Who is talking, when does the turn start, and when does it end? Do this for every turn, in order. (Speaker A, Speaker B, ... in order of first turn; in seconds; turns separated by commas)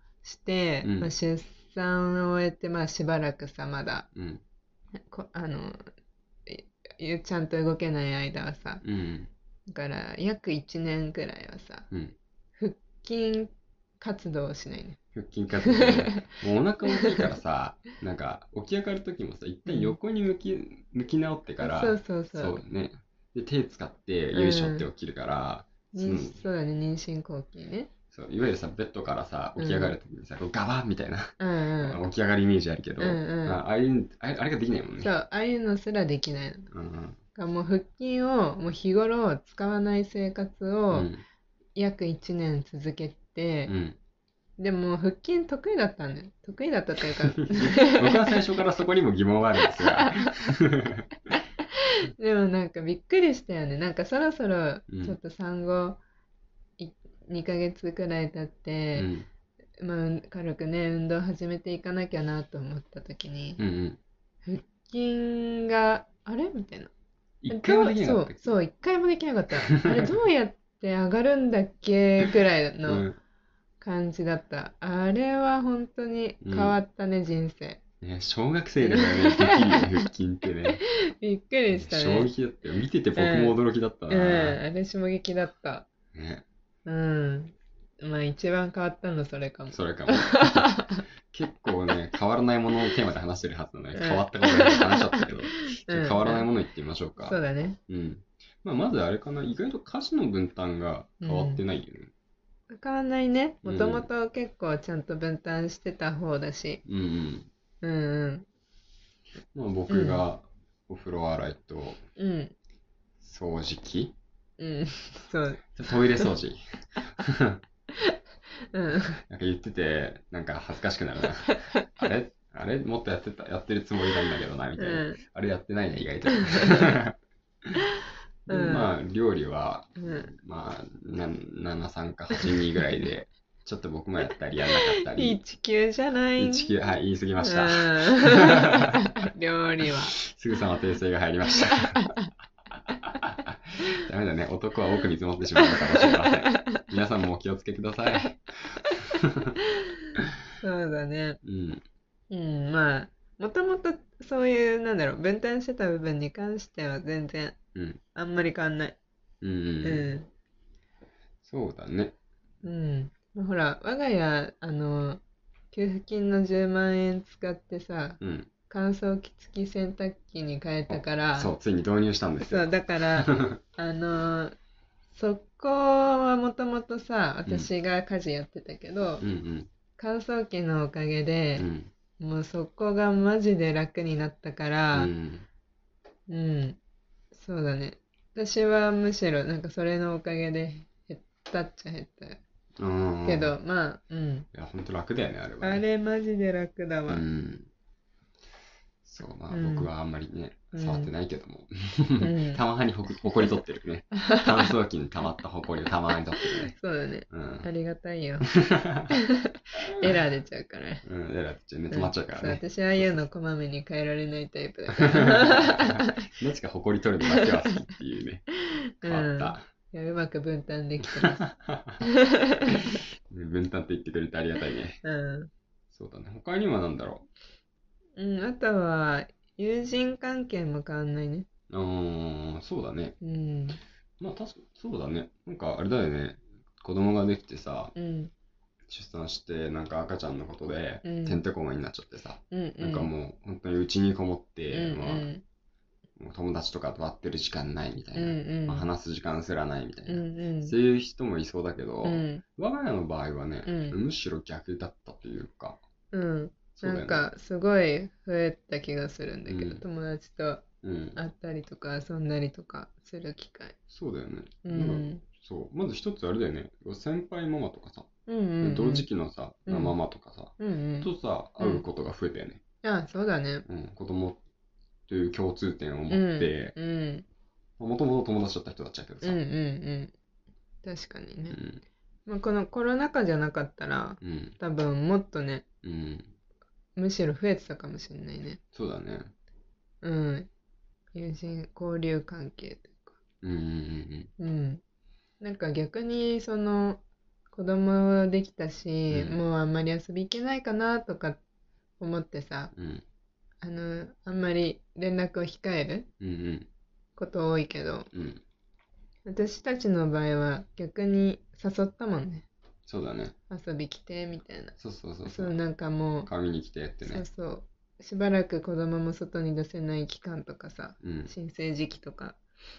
Speaker A: 0.2-4.1, Speaker B: 0.8-1.1, Speaker B: 4.1-4.4, Speaker A: 5.0-5.9, Speaker A: 6.5-8.8, Speaker B: 8.8-9.3, Speaker A: 9.7-11.9, Speaker B: 11.9-12.2, Speaker A: 12.6-15.0, Speaker B: 15.1-26.4, Speaker A: 15.6-16.4, Speaker A: 17.0-17.3, Speaker A: 19.6-20.0, Speaker A: 21.6-22.6, Speaker A: 24.3-24.9, Speaker A: 25.9-27.9, Speaker B: 28.1-35.1, Speaker A: 29.6-29.9, Speaker A: 31.4-32.0, Speaker A: 33.0-33.6, Speaker A: 35.0-36.7, Speaker B: 36.7-37.2, Speaker A: 37.3-41.1, Speaker B: 40.9-41.2, Speaker A: 41.8-43.7, Speaker B: 43.7-44.0, Speaker A: 44.6-48.3, Speaker B: 47.8-51.0, Speaker A: 49.6-50.5, Speaker A: 52.2-56.0, Speaker B: 54.9-55.2, Speaker A: 56.8-59.1, Speaker B: 59.0-59.3, Speaker A: 59.8-63.6, Speaker B: 63.6-64.0, Speaker A: 64.4-66.9, Speaker B: 67.4-68.6, Speaker A: 67.5-73.0, Speaker B: 69.6-70.0, Speaker B: 72.8-73.2, Speaker A: 73.8-77.8, Speaker B: 76.4-76.8, Speaker B: 78.0-80.8, Speaker A: 78.8-80.0, Speaker A: 80.7-82.3, Speaker B: 81.7-84.6, Speaker A: 83.2-83.6, Speaker A: 84.1-85.9, Speaker B: 86.1-86.4, Speaker A: 86.8-91.0, Speaker B: 89.7-102.1, Speaker A: 93.9-96.5, Speaker A: 97.2-97.8, Speaker A: 101.2-101.6, Speaker A: 102.7-106.8, Speaker B: 103.6-104.1, Speaker B: 106.8-107.5, Speaker A: 107.8-108.5, Speaker B: 109.5-112.0, Speaker A: 109.9-110.2, Speaker A: 112.2-112.5, Speaker B: 113.2-114.2, Speaker A: 114.6-116.3, Speaker B: 115.8-116.6, Speaker B: 117.2-117.6, Speaker A: 118.7-119.2, Speaker B: 119.3-127.2, Speaker A: 121.5-121.9, Speaker A: 124.8-125.2, Speaker A: 126.3-126.9, Speaker A: 128.5-128.9, Speaker B: 128.5-135.4, Speaker A: 130.0-130.3, Speaker A: 134.7-136.7, Speaker B: 136.4-138.6, Speaker A: 137.4-140.2, Speaker B: 140.2-142.1, Speaker A: 141.7-142.3, Speaker B: 143.3-148.8, Speaker A: 145.6-146.8, Speaker A: 150.6-151.4, Speaker B: 151.4-151.8, Speaker A: 152.3-157.6, Speaker B: 157.7-158.0, Speaker A: 158.1-159.0, Speaker B: 159.4-160.1, Speaker A: 159.8-160.3, Speaker B: 161.4-162.1, Speaker A: 162.6-171.5, Speaker B: 168.2-168.5, Speaker B: 170.9-173.6, Speaker A: 172.4-174.5, Speaker A: 175.1-179.2, Speaker B: 179.2-179.7, Speaker A: 180.0-181.7, Speaker B: 181.6-181.9, Speaker A: 182.2-185.1, Speaker B: 184.9-185.4, Speaker A: 186.3-186.8, Speaker A: 187.3-192.4, Speaker B: 192.8-193.5, Speaker A: 193.2-194.5, Speaker B: 194.5-195.8, Speaker A: 195.6-197.2, Speaker B: 197.1-197.7, Speaker B: 199.0-206.7, Speaker A: 199.5-199.9, Speaker A: 200.7-201.1, Speaker A: 202.2-202.6, Speaker A: 204.2-204.7, Speaker A: 206.4-208.5, Speaker B: 207.3-207.7, Speaker B: 208.6-209.1, Speaker A: 209.1-209.4, Speaker A: 209.9-211.0, Speaker B: 211.0-213.2, Speaker A: 211.9-216.1, Speaker B: 215.0-218.4, Speaker A: 219.0-221.4, Speaker B: 219.0-219.7, Speaker B: 221.3-222.0, Speaker A: 222.0-223.0, Speaker B: 223.3-225.0, Speaker A: 225.0-225.5, Speaker B: 225.9-227.3, Speaker A: 228.2-231.5, Speaker B: 231.7-233.2, Speaker A: 233.2-233.8, Speaker B: 234.2-237.9, Speaker A: 237.9-238.3, Speaker B: 238.9-245.3, Speaker A: 241.0-241.4, Speaker A: 242.5-243.1, Speaker A: 244.7-245.4, Speaker B: 246.2-255.8, Speaker A: 248.1-248.9, Speaker A: 250.1-250.7, Speaker A: 252.0-252.4, Speaker A: 253.6-254.0, Speaker A: 256.1-260.6, Speaker B: 256.8-257.2, Speaker B: 259.4-259.8, Speaker B: 260.8-261.2, Speaker A: 261.1-263.7, Speaker B: 263.9-268.1, Speaker A: 264.6-265.2, Speaker A: 268.3-269.1, Speaker B: 268.6-272.6, Speaker A: 269.7-270.0, Speaker A: 270.6-271.1, Speaker A: 271.6-271.8, Speaker A: 272.8-273.6, Speaker B: 273.7-274.4, Speaker B: 275.1-276.8, Speaker A: 276.1-277.2, Speaker B: 277.8-279.4, Speaker A: 279.2-280.1, Speaker A: 280.8-281.6, Speaker B: 281.5-281.8, Speaker A: 282.2-285.6, Speaker B: 284.2-284.6, Speaker B: 285.8-286.3, Speaker A: 286.9-288.6, Speaker B: 288.7-289.3, Speaker A: 290.0-290.5, Speaker A: 291.1-293.2, Speaker B: 293.4-294.3, Speaker A: 294.4-294.8, Speaker A: 295.4-301.4, Speaker B: 299.1-299.4, Speaker A: 302.0-302.7, Speaker B: 302.7-303.0, Speaker A: 303.6-306.1, Speaker B: 306.2-306.7, Speaker A: 307.1-308.1, Speaker B: 308.1-308.4, Speaker A: 309.2-312.5, Speaker B: 312.9-313.3, Speaker A: 313.5-316.3, Speaker B: 314.8-315.6, Speaker B: 316.2-317.2, Speaker A: 317.0-322.4, Speaker B: 321.0-321.3